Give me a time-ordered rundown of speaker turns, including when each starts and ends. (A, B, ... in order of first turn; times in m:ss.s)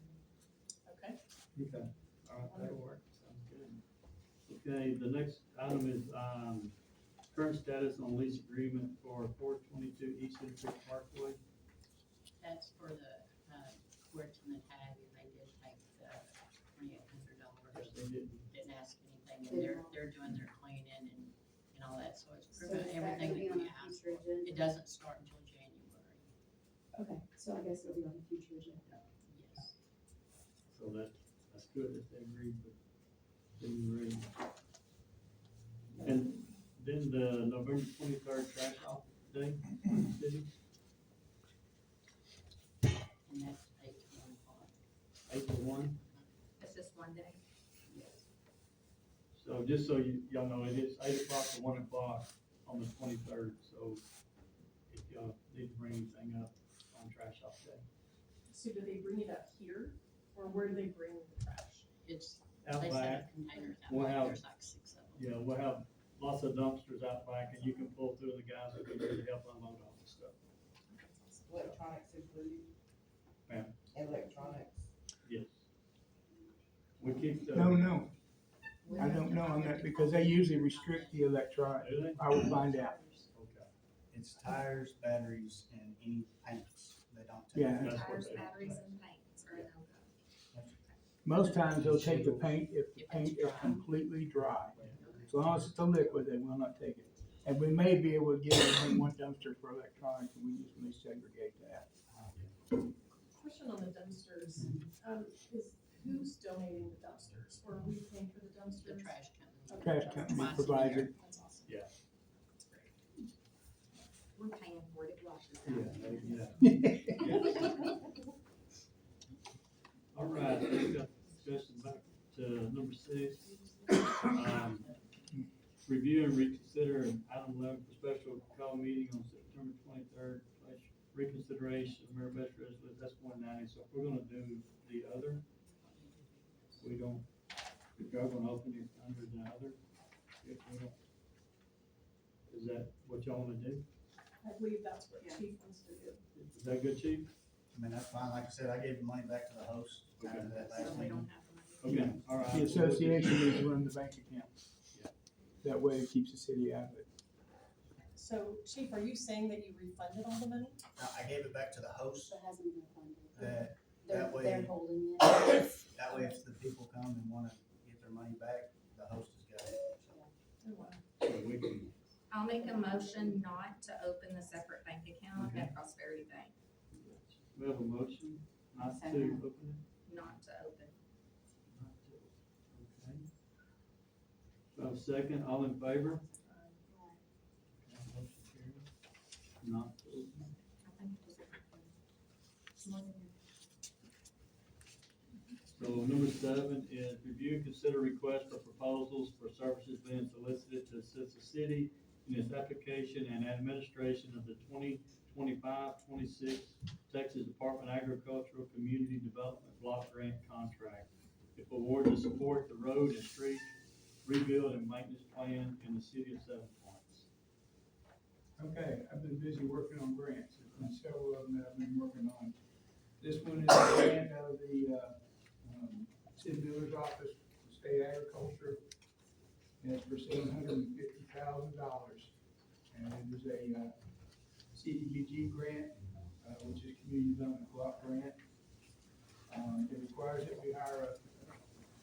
0:00.8-0:01.2 A
0:01.5-0:03.8 B
0:02.4-0:02.8 A
0:04.4-0:06.7 B
0:07.3-0:11.4 B
0:12.4-0:26.3 C
0:17.7-0:18.5 B
0:19.4-0:20.0 D
0:22.6-0:24.6 D
0:26.9-0:28.9 D
0:28.9-0:29.7 C
0:30.7-0:32.7 B
0:33.6-0:34.3 B
0:36.0-0:40.5 B
0:43.2-0:44.7 C
0:45.2-0:46.0 B
0:46.6-0:47.4 E
0:47.9-0:48.2 C
0:49.3-0:54.0 B
0:54.9-0:57.8 B
0:58.5-1:01.8 A
1:02.0-1:05.3 C
1:02.6-1:03.3 B
1:03.8-1:04.4 B
1:05.1-1:10.4 B
1:10.9-1:11.4 E
1:11.4-1:12.8 F
1:13.5-1:13.8 B
1:13.9-1:14.9 F
1:15.2-1:15.6 B
1:17.0-1:18.0 B
1:17.5-1:18.1 G
1:18.8-1:21.0 E
1:18.9-1:20.1 C
1:18.9-1:23.0 G
1:20.9-1:21.2 C
1:21.8-1:22.3 B
1:21.8-1:23.2 C
1:23.3-1:23.7 B
1:24.1-1:28.8 H
1:27.5-1:27.9 G
1:27.8-1:28.9 B
1:27.8-1:30.2 E
1:30.5-1:30.8 H
1:31.2-1:41.9 G
1:31.7-1:32.4 H
1:32.9-1:34.1 C
1:34.5-1:35.0 B
1:34.7-1:35.5 H
1:34.9-1:35.6 C
1:43.3-1:51.8 A
1:48.7-1:51.1 C
1:49.8-1:51.1 G
1:51.6-1:51.9 B
1:52.5-1:53.3 A
1:54.3-1:56.7 E
1:55.6-1:57.8 B
1:56.6-1:57.1 G
2:00.1-2:03.5 B
2:04.2-2:04.9 B
2:05.8-2:15.4 B
2:15.6-2:16.9 C
2:16.8-2:17.3 B
2:17.9-2:19.8 B
2:20.4-2:21.0 B
2:22.5-2:23.8 B
2:24.4-2:26.2 A
2:26.3-2:27.3 B
2:27.7-2:31.3 H
2:30.2-2:30.7 B
2:30.5-2:32.1 E
2:31.8-2:33.5 B
2:31.9-2:34.6 G
2:31.9-2:32.2 H
2:35.6-2:37.1 G
2:38.2-2:40.8 A
2:41.0-2:42.4 H
2:42.2-2:46.3 D
2:43.3-2:44.8 H
2:45.9-2:50.2 H
2:50.6-2:51.0 A
2:51.2-2:51.9 B
2:52.3-2:56.5 E
2:52.6-2:53.4 D
2:55.3-2:55.7 B
2:56.9-2:59.8 B
2:58.8-2:59.4 D
3:00.0-3:00.9 E
3:01.7-3:03.2 B
3:04.7-3:06.2 B
3:06.0-3:07.2 D
3:07.8-3:08.9 B
3:09.6-3:10.5 B
3:10.8-3:11.9 E
3:12.8-3:13.3 E
3:15.7-3:37.3 B
3:38.6-3:42.6 G
3:43.2-3:48.8 G
3:49.8-3:52.3 G
3:52.9-3:53.9 G
3:54.7-3:58.4 G
3:59.5-4:01.7 G